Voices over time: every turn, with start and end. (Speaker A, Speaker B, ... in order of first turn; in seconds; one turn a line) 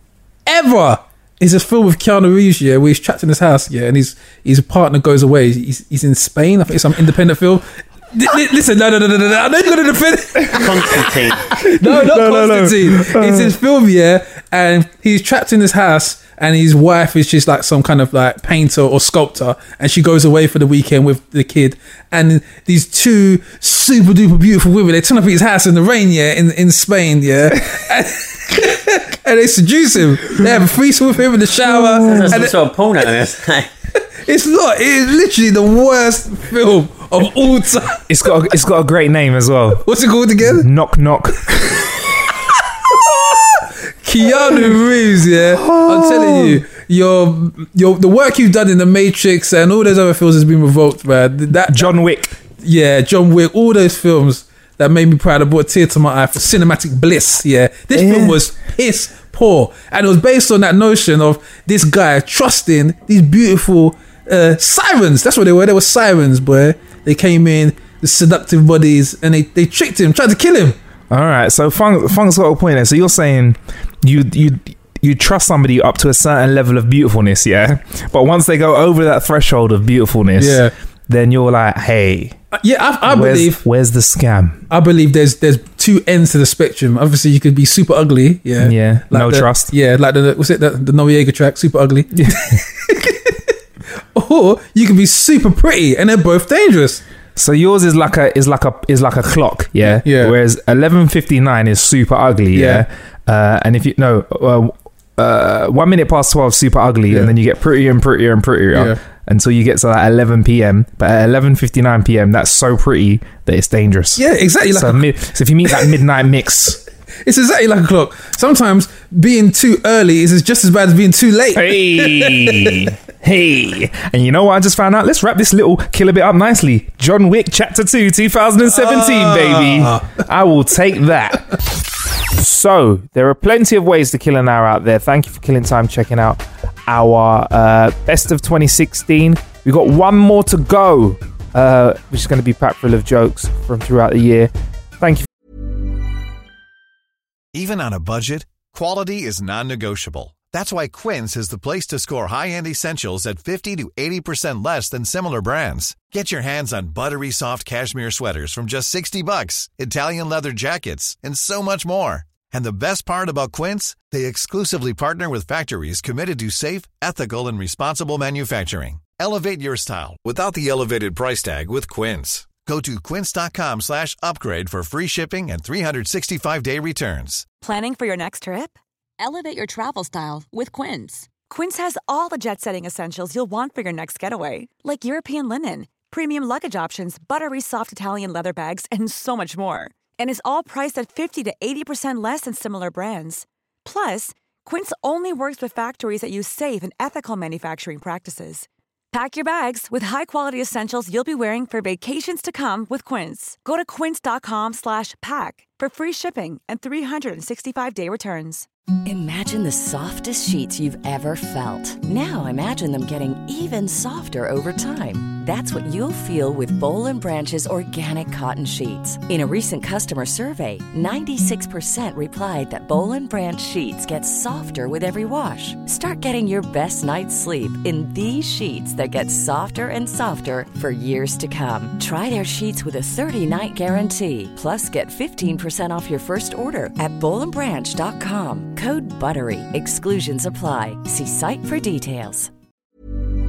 Speaker A: 0.5-32.5
Speaker B: 10.5-11.6
Speaker C: 11.5-13.5
Speaker C: 31.6-32.4
Speaker B: 32.1-33.7
Speaker A: 34.2-38.0
Speaker C: 38.1-39.9
Speaker A: 39.8-40.7
Speaker C: 40.4-42.0
Speaker A: 43.1-51.9
Speaker C: 45.5-46.6
Speaker C: 51.7-52.4
Speaker A: 52.5-70.8
Speaker C: 57.9-58.4
Speaker C: 71.1-82.4
Speaker A: 80.4-80.7
Speaker A: 82.5-83.6
Speaker C: 83.0-84.6
Speaker A: 84.7-93.5
Speaker C: 88.6-89.7
Speaker C: 92.2-92.6
Speaker A: 94.1-97.0
Speaker C: 97.3-116.8
Speaker A: 100.0-100.3
Speaker A: 102.5-102.8
Speaker A: 108.7-109.0
Speaker A: 114.2-115.1
Speaker A: 117.2-122.8
Speaker C: 121.5-131.6
Speaker A: 128.7-130.1
Speaker C: 132.3-145.3
Speaker D: 147.5-177.5
Speaker E: 177.6-208.7
Speaker F: 209.1-242.5